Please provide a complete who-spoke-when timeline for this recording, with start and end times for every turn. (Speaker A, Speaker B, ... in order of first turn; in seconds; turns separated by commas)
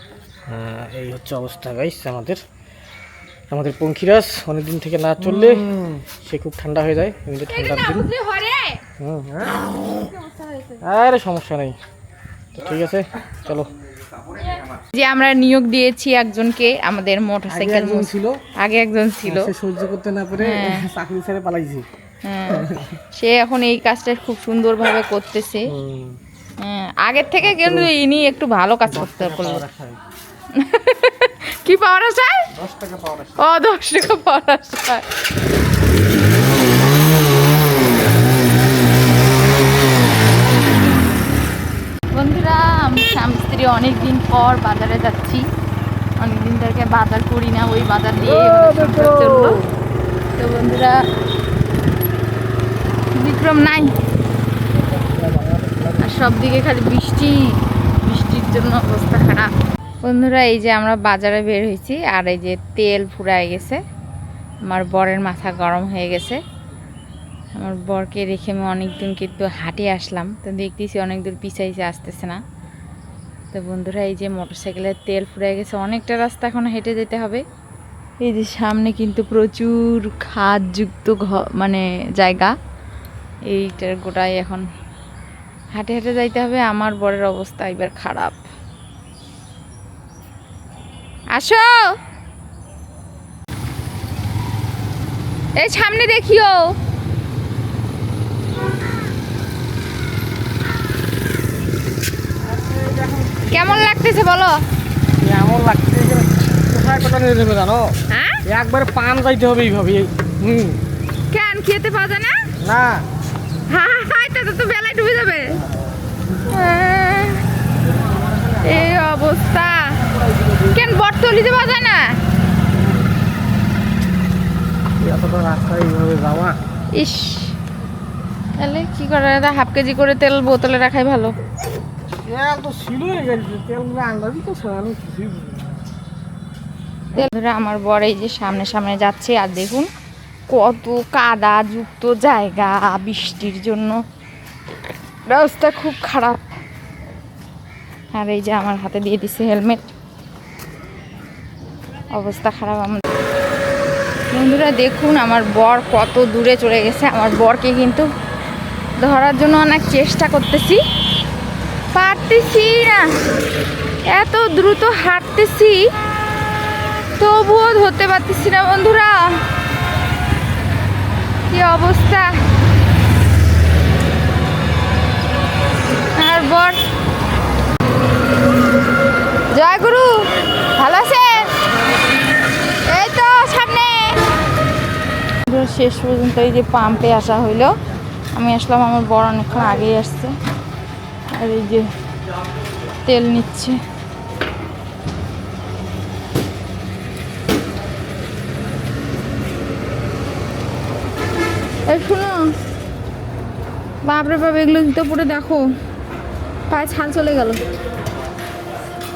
Speaker A: 0.5-2.4, Speaker A: 3.5-8.1, Speaker B: 7.5-8.8, Speaker A: 9.0-9.6, Speaker B: 9.9-10.8, Speaker A: 10.8-11.8, Speaker A: 12.5-13.7, Speaker B: 14.9-19.5, Speaker A: 17.5-18.4, Speaker A: 19.2-21.9, Speaker B: 20.4-20.8, Speaker B: 22.2-25.7, Speaker A: 22.5-23.0, Speaker A: 25.7-26.2, Speaker B: 26.6-29.7, Speaker A: 27.4-27.9, Speaker A: 29.2-29.8, Speaker B: 30.5-32.5, Speaker B: 33.3-35.0, Speaker B: 42.1-45.4, Speaker B: 46.2-49.6, Speaker A: 48.3-49.5, Speaker B: 50.4-50.9, Speaker B: 53.1-53.9, Speaker A: 55.0-56.0, Speaker B: 56.0-57.5, Speaker B: 58.0-59.5, Speaker B: 60.0-63.8, Speaker B: 64.7-66.4, Speaker B: 67.6-72.4, Speaker B: 73.5-77.4, Speaker B: 78.2-82.5, Speaker B: 83.5-84.6, Speaker B: 85.7-88.4, Speaker B: 91.3-91.7, Speaker B: 95.6-96.7, Speaker A: 102.5-103.3, Speaker B: 103.5-104.6, Speaker A: 105.2-110.8, Speaker B: 108.1-108.4, Speaker B: 111.3-112.4, Speaker A: 112.6-113.0, Speaker B: 113.7-115.6, Speaker B: 116.4-117.4, Speaker B: 118.6-120.0, Speaker B: 120.7-122.2, Speaker A: 125.0-126.6, Speaker B: 127.0-127.6, Speaker B: 128.6-131.3, Speaker A: 132.2-135.6, Speaker B: 137.1-139.9, Speaker B: 140.5-144.0, Speaker B: 145.3-146.4, Speaker B: 148.1-149.8, Speaker B: 152.1-153.0, Speaker B: 154.3-158.1, Speaker B: 159.0-160.8, Speaker B: 161.9-163.0, Speaker B: 164.1-165.8, Speaker B: 167.2-169.4, Speaker B: 171.5-172.3, Speaker B: 176.2-176.8, Speaker B: 179.5-181.6, Speaker B: 182.9-184.2, Speaker B: 185.5-187.7, Speaker B: 188.3-190.3, Speaker B: 191.3-191.8, Speaker B: 193.0-193.8, Speaker B: 201.9-202.4, Speaker B: 204.0-205.7, Speaker B: 206.7-207.6